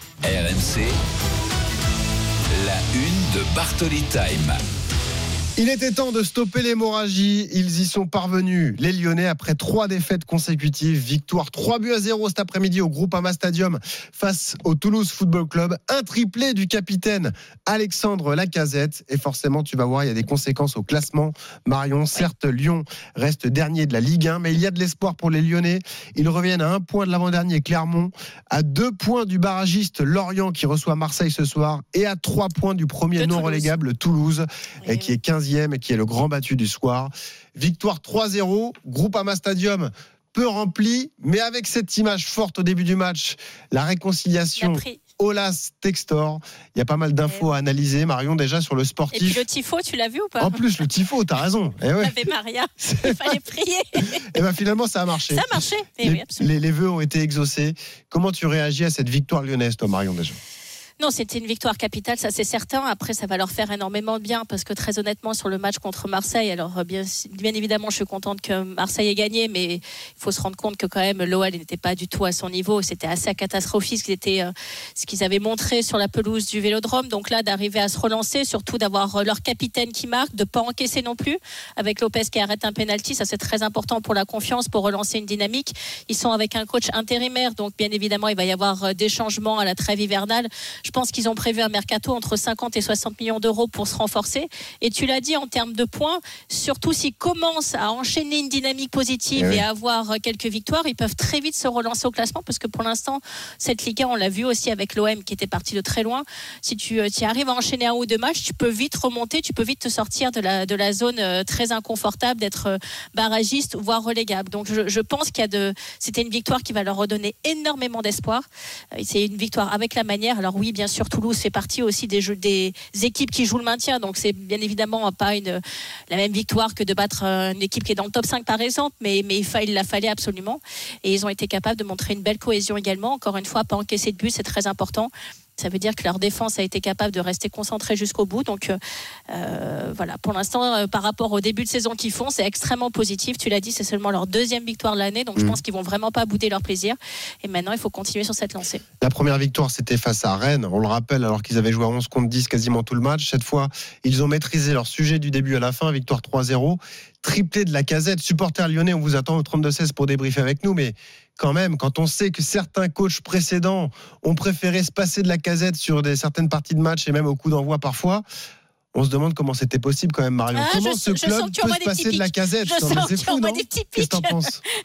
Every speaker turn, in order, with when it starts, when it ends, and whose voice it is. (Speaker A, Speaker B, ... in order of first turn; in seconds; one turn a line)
Speaker A: 0.2-0.9
Speaker A: 2.5-4.6
Speaker B: 5.6-49.4
Speaker C: 33.2-33.7
Speaker C: 34.8-35.1
Speaker C: 44.6-45.0
Speaker C: 49.1-50.5
Speaker B: 50.4-52.1
Speaker C: 52.0-54.2
Speaker B: 52.8-53.4
Speaker B: 54.3-60.4
Speaker C: 55.3-56.5
Speaker C: 61.0-138.8
Speaker B: 99.3-99.6
Speaker C: 139.3-148.8
Speaker B: 149.0-168.2
Speaker B: 168.9-174.6
Speaker C: 170.5-174.4